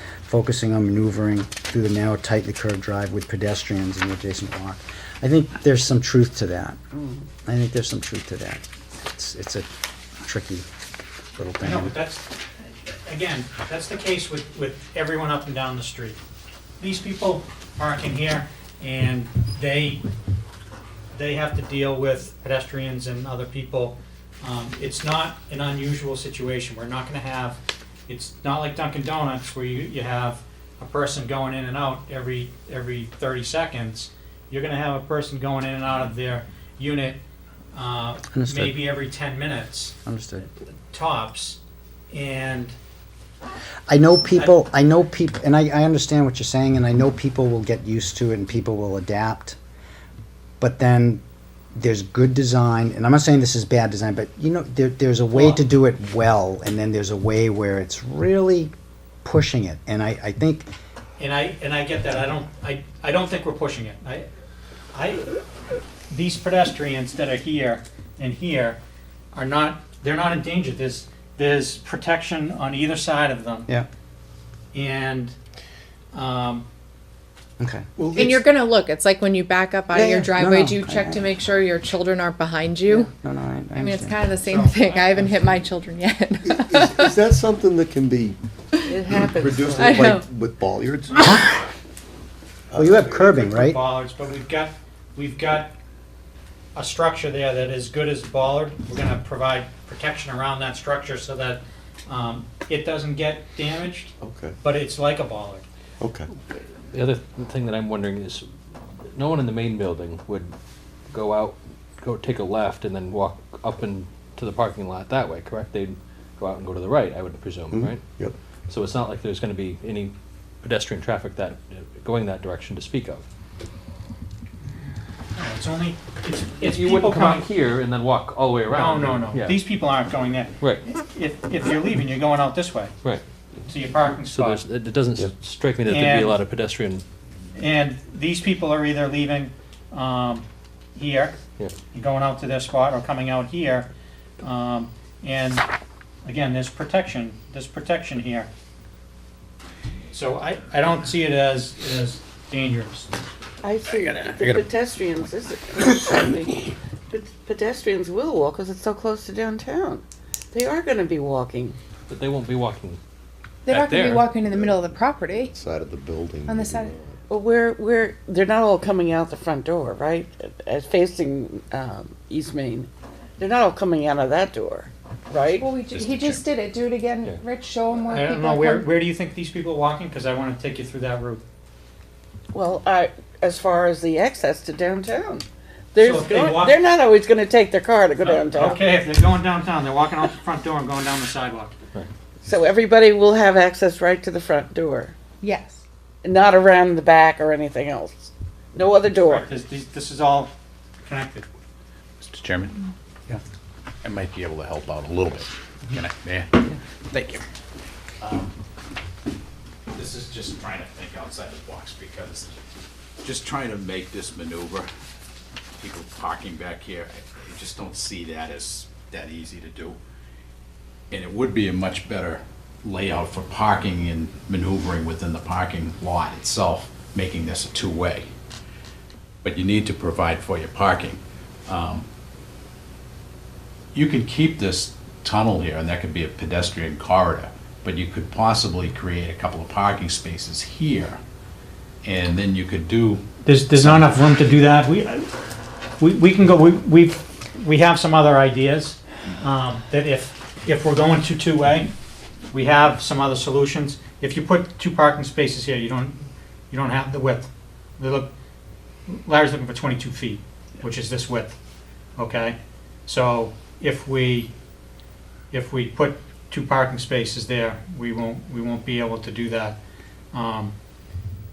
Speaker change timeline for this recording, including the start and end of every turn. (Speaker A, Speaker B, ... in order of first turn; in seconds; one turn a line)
Speaker A: 0.3-6.8
Speaker A: 7.4-10.7
Speaker A: 11.3-11.9
Speaker B: 11.6-12.3
Speaker B: 13.1-16.2
Speaker B: 16.8-20.0
Speaker B: 21.1-37.2
Speaker B: 37.7-40.0
Speaker A: 38.3-38.8
Speaker A: 40.0-40.5
Speaker B: 40.9-41.6
Speaker B: 42.1-42.7
Speaker A: 43.9-49.6
Speaker A: 50.6-51.2
Speaker A: 51.7-58.7
Speaker B: 55.3-55.6
Speaker A: 59.2-60.7
Speaker B: 61.2-64.2
Speaker B: 64.9-65.3
Speaker B: 66.1-68.8
Speaker B: 69.3-73.7
Speaker B: 74.7-75.3
Speaker B: 76.1-76.6
Speaker A: 77.6-77.8
Speaker B: 78.0-78.4
Speaker C: 78.2-83.0
Speaker A: 79.9-81.3
Speaker A: 82.9-84.2
Speaker C: 83.7-87.2
Speaker B: 84.4-85.6
Speaker D: 86.4-88.4
Speaker E: 88.8-90.0
Speaker D: 89.1-91.4
Speaker C: 89.8-90.2
Speaker A: 91.2-91.6
Speaker D: 92.7-93.3
Speaker A: 92.7-93.8
Speaker B: 93.0-95.7
Speaker B: 96.7-105.7
Speaker D: 104.2-104.6
Speaker D: 106.0-106.3
Speaker F: 106.9-108.5
Speaker F: 109.1-110.5
Speaker F: 111.1-118.0
Speaker D: 117.7-118.3
Speaker F: 118.7-123.2
Speaker B: 125.4-127.5
Speaker F: 126.6-129.6
Speaker B: 128.7-132.9
Speaker F: 130.6-130.8
Speaker B: 133.7-134.6
Speaker F: 134.3-137.0
Speaker B: 135.8-136.4
Speaker B: 137.5-141.4
Speaker B: 141.9-143.9
Speaker B: 144.4-145.6
Speaker B: 146.2-148.5
Speaker B: 150.1-153.1
Speaker E: 153.6-161.8
Speaker F: 162.1-163.0
Speaker C: 163.6-165.5
Speaker F: 163.7-164.3
Speaker D: 164.4-164.7
Speaker D: 165.3-166.9
Speaker C: 166.4-166.9
Speaker E: 167.3-175.7
Speaker C: 175.5-178.8
Speaker G: 175.9-176.4
Speaker B: 178.0-181.4
Speaker E: 182.5-188.8
Speaker B: 186.0-186.8
Speaker B: 188.2-191.7
Speaker E: 192.4-195.2
Speaker C: 195.4-195.8
Speaker E: 196.2-199.5
Speaker B: 199.2-200.5
Speaker B: 201.0-201.4
Speaker G: 202.2-202.8
Speaker G: 204.0-207.4
Speaker G: 208.2-208.5
Speaker G: 209.9-212.5
Speaker G: 213.2-214.9
Speaker G: 215.8-220.0
Speaker G: 221.1-228.3
Speaker G: 229.4-232.1
Speaker G: 233.9-241.2
Speaker G: 242.0-244.3
Speaker B: 243.4-245.3
Speaker B: 246.0-251.9
Speaker B: 252.5-258.3
Speaker B: 259.1-261.5
Speaker B: 262.2-264.5
Speaker B: 265.5-269.8
Speaker B: 270.3-270.7